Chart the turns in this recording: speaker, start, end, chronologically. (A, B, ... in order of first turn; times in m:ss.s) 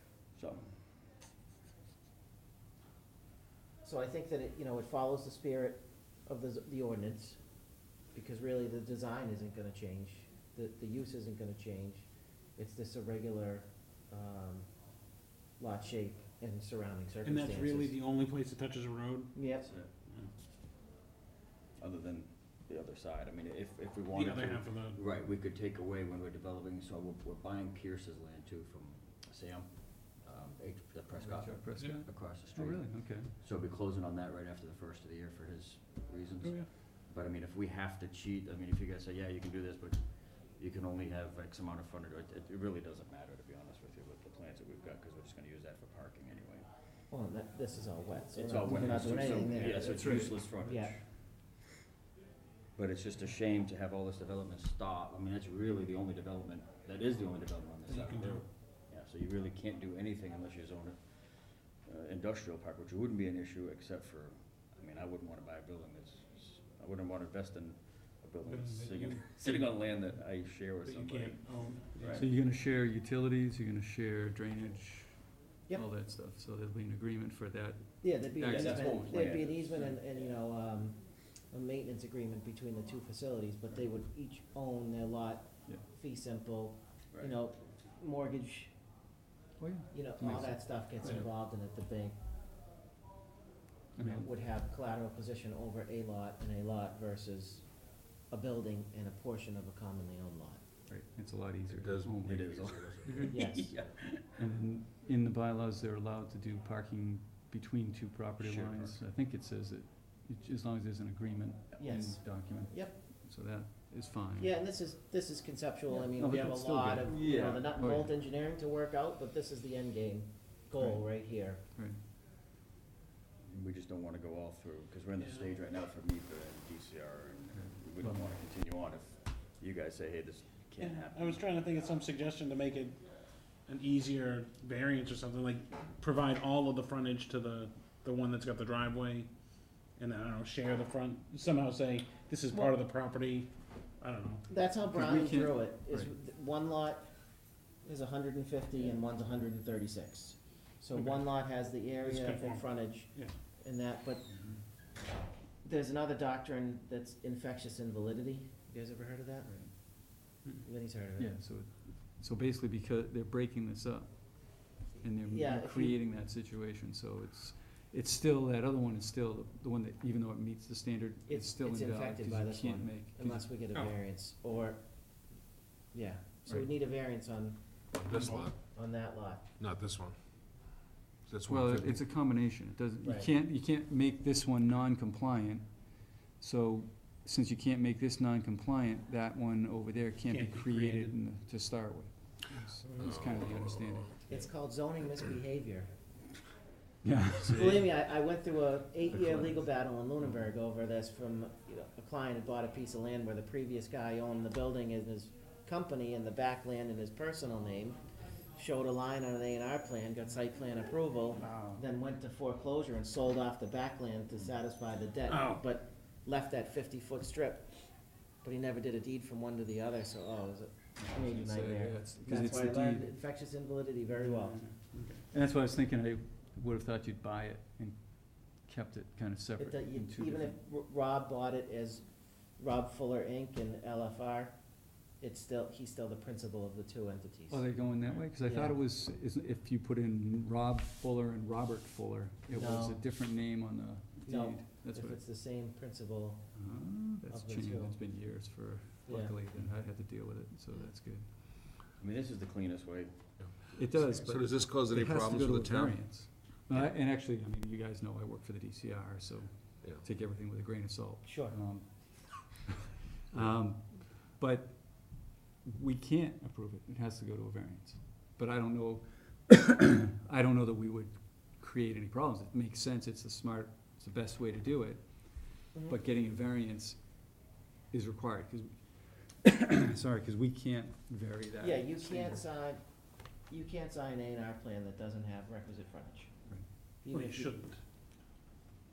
0:00.3-0:00.8 A
0:03.8-0:07.4 B
0:08.1-0:14.7 B
0:15.6-0:17.9 B
0:17.2-0:19.4 C
0:19.3-0:19.7 B
0:19.6-0:19.9 A
0:20.0-0:20.3 C
0:21.8-0:46.7 A
0:24.1-0:25.0 C
0:31.1-0:33.3 D
0:36.4-0:36.7 C
0:47.1-0:50.9 B
0:48.3-0:51.0 A
0:48.6-0:50.4 D
0:52.8-1:12.2 A
0:57.9-0:58.4 C
1:08.4-1:09.6 C
1:10.8-1:12.3 C
1:12.1-1:19.4 D
1:18.0-1:28.7 B
1:18.5-1:20.2 A
1:29.6-1:31.2 D
1:29.9-1:32.1 B
1:34.0-1:34.3 D
1:34.0-1:40.6 B
1:40.9-1:42.7 D
1:41.7-1:43.2 E
1:42.2-1:44.3 A
1:43.0-1:43.3 C
1:43.3-1:43.8 B
1:44.3-1:54.5 D
1:48.4-1:49.0 A
1:51.8-1:52.9 B
1:54.4-2:01.6 B
1:55.9-1:58.1 D
1:57.0-1:57.7 A
2:00.8-2:02.0 D
2:03.4-2:11.6 A
2:05.2-2:05.4 C
2:07.5-2:08.4 D
2:10.8-2:24.4 C
2:24.5-2:34.7 B
2:24.8-2:26.1 D
2:30.9-2:33.4 C
2:34.3-2:34.6 D
2:35.6-2:39.5 B
2:39.4-2:39.7 D
2:40.6-2:41.3 B
2:41.2-2:53.5 D
2:45.2-2:46.0 B
2:51.3-2:55.3 B
2:55.9-2:59.4 B
2:57.9-2:59.0 E
2:58.1-2:58.5 C
2:59.6-3:02.1 E
3:01.5-3:14.4 D
3:03.0-3:03.3 B
3:10.2-3:11.2 C
3:13.0-3:14.1 E
3:14.3-3:15.9 B
3:17.0-3:17.9 D
3:17.4-3:28.0 B
3:19.1-3:19.5 D
3:28.5-3:44.7 B
3:35.3-3:35.6 C
3:41.0-3:43.1 D
3:44.2-3:45.2 C
3:45.3-3:50.6 D
3:49.6-3:57.8 B
3:57.5-4:05.2 D
3:58.3-3:58.8 B
4:02.5-4:03.0 B
4:04.2-4:06.6 B
4:06.5-4:11.3 D
4:07.3-4:08.0 B
4:09.0-4:09.4 B
4:12.0-4:14.2 A
4:13.4-4:16.3 E
4:13.7-4:42.4 D
4:21.2-4:21.6 B
4:41.6-4:47.7 B
4:47.1-4:47.8 C